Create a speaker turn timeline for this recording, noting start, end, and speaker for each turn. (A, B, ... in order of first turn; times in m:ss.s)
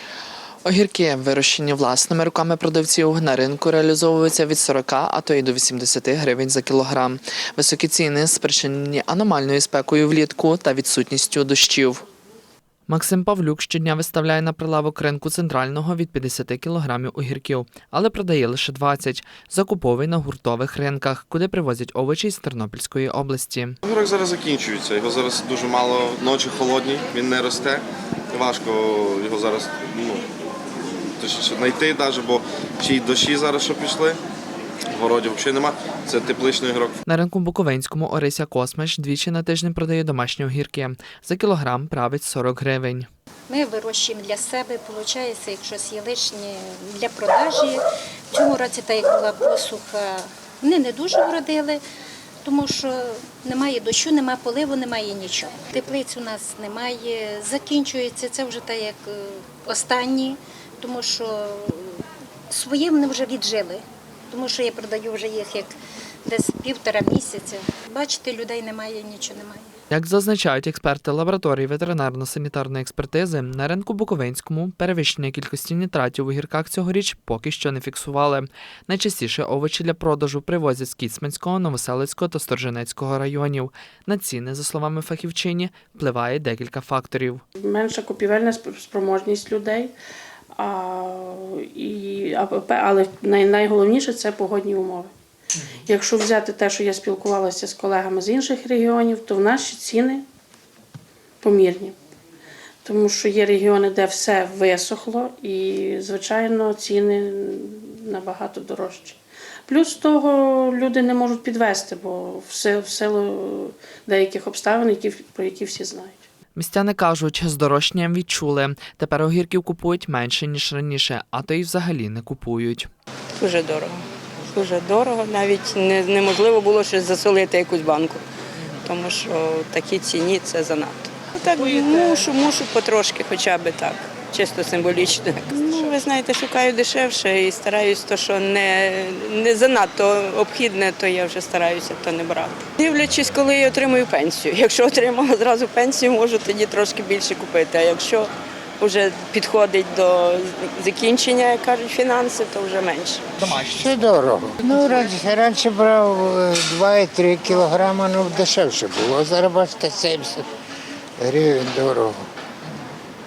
0:00.6-0:12.0 A
0:12.9-0:23.8 A
0:23.8-0:30.3 B
0:31.2-0:34.2 B
0:34.9-0:37.0 B
0:37.1-0:43.1 A
0:43.5-0:51.8 C
0:52.4-1:09.8 C
1:09.9-1:27.4 A
1:27.6-1:29.9 D
1:30.6-1:35.1 D
1:35.9-1:40.2 D
1:41.4-1:42.0 D
1:42.8-1:56.2 D
1:56.6-2:02.9 A
2:03.4-2:08.2 E
2:08.9-2:33.2 E
2:33.4-2:40.4 F
2:41.2-2:42.3 F